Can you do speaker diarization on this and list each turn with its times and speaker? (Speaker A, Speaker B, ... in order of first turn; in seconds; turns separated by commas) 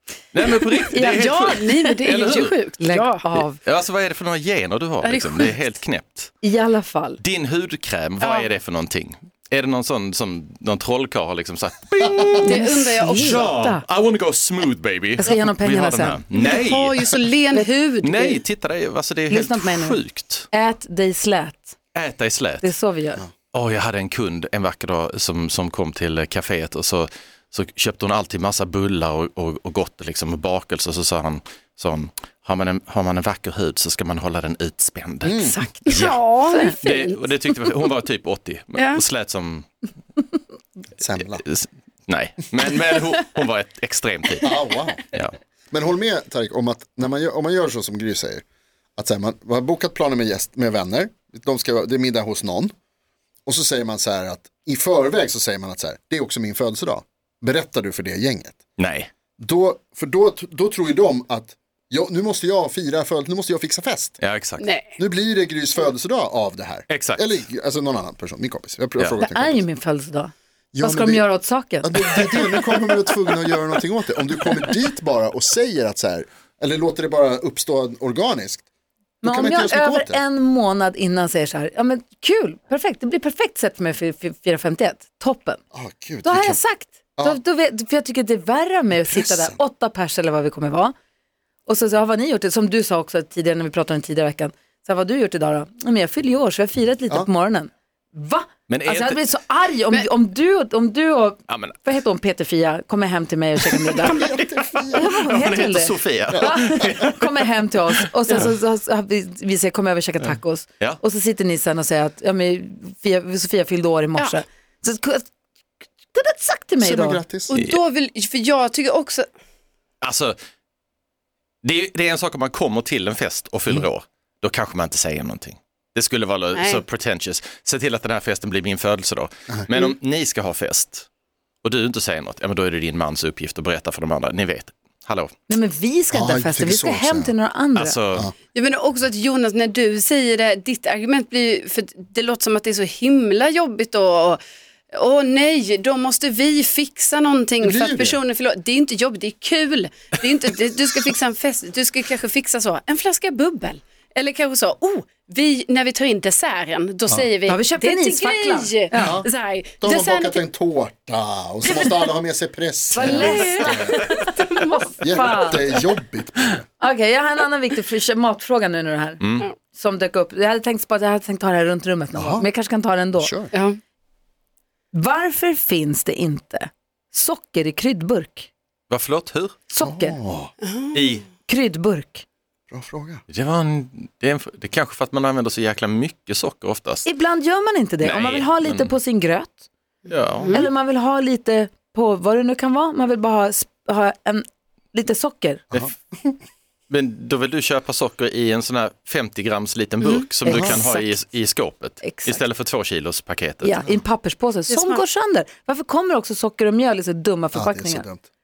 Speaker A: 0.3-2.7, Speaker B: 0.9-3.2, Speaker C: 2.8-3.6, Speaker A: 3.6-6.4, Speaker B: 5.0-5.6, Speaker C: 6.4-7.2, Speaker A: 7.2-17.2, Speaker B: 8.2-8.5, Speaker B: 12.4-13.5, Speaker C: 12.4-13.8, Speaker C: 15.2-16.2, Speaker B: 16.3-18.4, Speaker A: 18.0-20.5, Speaker C: 19.3-21.8, Speaker A: 21.9-22.7, Speaker C: 22.6-23.2, Speaker A: 23.5-35.4, Speaker D: 35.2-35.6, Speaker C: 35.4-36.8, Speaker B: 35.9-37.1, Speaker A: 35.9-39.7, Speaker B: 38.8-39.0, Speaker D: 41.0-41.4, Speaker A: 41.4-44.5, Speaker D: 44.4-45.0, Speaker D: 45.7-48.4, Speaker D: 49.0-52.7, Speaker D: 53.5-58.6, Speaker A: 58.8-59.1, Speaker D: 59.4-64.2, Speaker A: 64.2-64.7, Speaker B: 64.6-65.0, Speaker D: 65.0-69.6, Speaker A: 66.9-67.2, Speaker C: 69.2-72.2, Speaker D: 70.7-71.3, Speaker D: 71.8-78.6, Speaker D: 79.2-80.2, Speaker C: 79.2-85.6, Speaker D: 85.7-86.6, Speaker C: 86.2-90.9, Speaker D: 89.0-89.6, Speaker C: 91.7-104.2, Speaker A: 98.7-99.2, Speaker A: 101.5-101.8, Speaker A: 103.6-103.9, Speaker D: 104.1-105.2, Speaker A: 104.8-108.0, Speaker C: 104.9-115.3, Speaker C: 116.1-117.2, Speaker D: 116.8-117.5, Speaker B: 117.5-119.3, Speaker A: 120.0-120.4, Speaker A: 121.6-131.1, Speaker B: 126.5-126.8, Speaker A: 131.6-135.3, Speaker C: 135.5-138.0, Speaker D: 136.1-137.3, Speaker A: 137.8-138.3, Speaker B: 138.5-144.4, Speaker B: 144.9-160.4, Speaker D: 147.6-148.2, Speaker C: 157.5-159.2, Speaker D: 158.9-159.3, Speaker D: 159.8-164.0, Speaker C: 162.9-165.6, Speaker B: 163.1-164.8, Speaker D: 165.0-166.7, Speaker C: 166.8-173.4, Speaker A: 169.2-169.5, Speaker D: 172.1-172.5, Speaker D: 173.2-173.5, Speaker B: 173.5-173.8, Speaker C: 174.9-178.5, Speaker A: 178.9-179.6, Speaker C: 179.7-180.2, Speaker D: 179.8-180.5, Speaker B: 180.6-180.9, Speaker A: 180.9-181.2, Speaker C: 181.4-182.2, Speaker D: 182.7-183.2, Speaker A: 183.3-187.1, Speaker C: 187.0-189.7, Speaker A: 188.0-188.9, Speaker A: 190.1-190.7, Speaker C: 190.5-195.6, Speaker A: 196.9-203.8, Speaker B: 200.0-200.2, Speaker C: 200.4-201.1, Speaker D: 200.4-200.8, Speaker C: 202.0-202.4, Speaker C: 203.6-208.1, Speaker B: 204.7-205.0, Speaker D: 207.5-208.2